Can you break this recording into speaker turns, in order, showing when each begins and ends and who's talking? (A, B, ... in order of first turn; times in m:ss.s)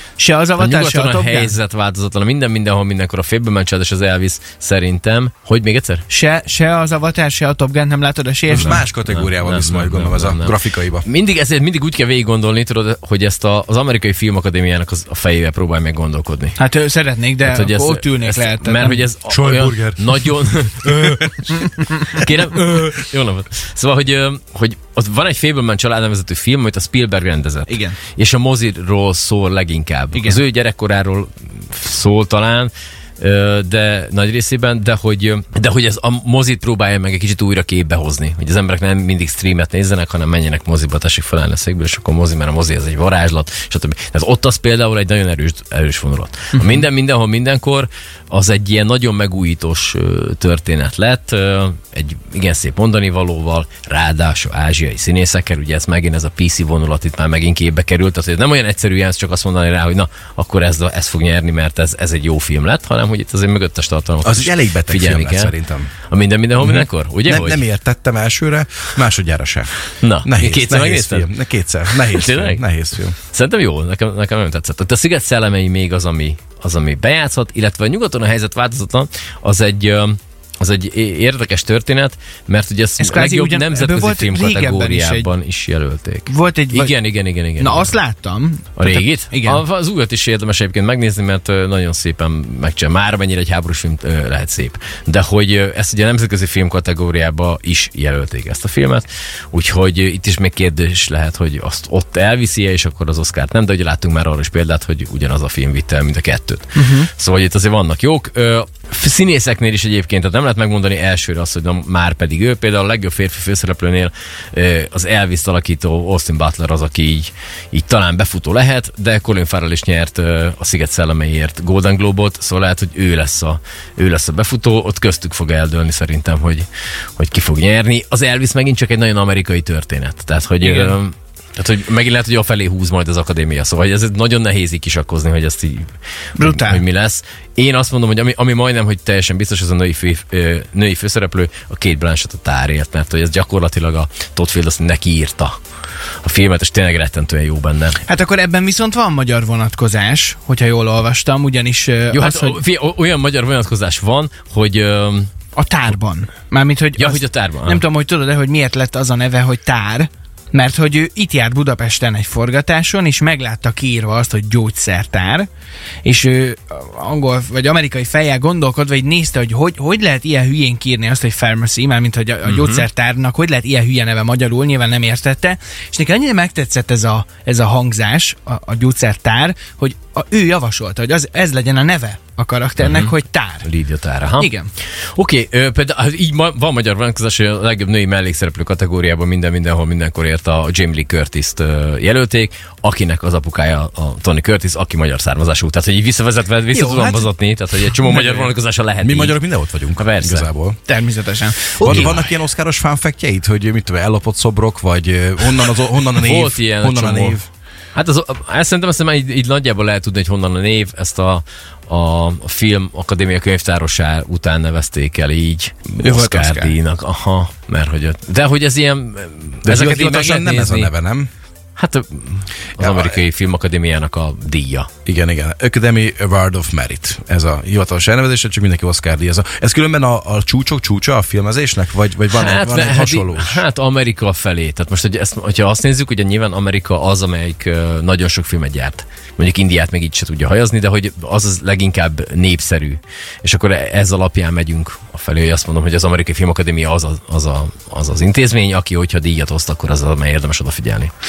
0:00.2-0:01.5 A
0:00.6-0:06.0 B
0:06.1-0:08.8 A
0:08.5-0:11.0 C
0:08.5-0:16.6 B
0:16.6-0:19.0 A
0:17.4-1:05.5 B
0:19.3-0:20.2 C
0:20.8-0:21.5 C
0:27.7-0:28.0 A
0:30.1-0:30.4 A
1:04.2-1:05.9 C
1:06.1-1:07.6 B
1:06.6-1:13.2 C
1:10.0-1:11.3 B
1:11.8-1:12.6 B
1:13.2-1:28.0 B
1:23.0-1:25.3 A
1:26.3-1:27.0 A
1:27.6-1:29.6 A
1:28.8-2:25.6 B
1:46.7-1:47.1 A
2:10.6-2:11.0 A
2:16.4-2:16.8 A
2:26.2-2:28.0 B
2:28.0-2:32.6 A
2:32.1-2:35.3 B
2:35.5-2:45.5 A
2:37.0-2:37.8 B
2:46.0-3:03.7 A
2:52.4-2:52.8 B
3:02.8-3:03.1 B
3:03.6-3:04.5 B
3:04.4-3:04.7 A
3:05.1-3:19.4 B
3:16.7-3:18.3 A
3:18.2-3:18.5 C
3:19.0-3:20.8 C
3:19.9-3:20.5 B
3:20.8-3:22.2 A
3:21.8-3:27.4 C
3:21.8-3:22.2 B
3:26.1-3:27.4 B
3:27.9-3:40.9 B
3:36.0-3:36.8 A
3:39.6-3:41.3 C
3:41.8-3:44.9 B
3:42.8-3:43.2 C
3:45.0-3:53.6 C
3:52.3-4:11.1 B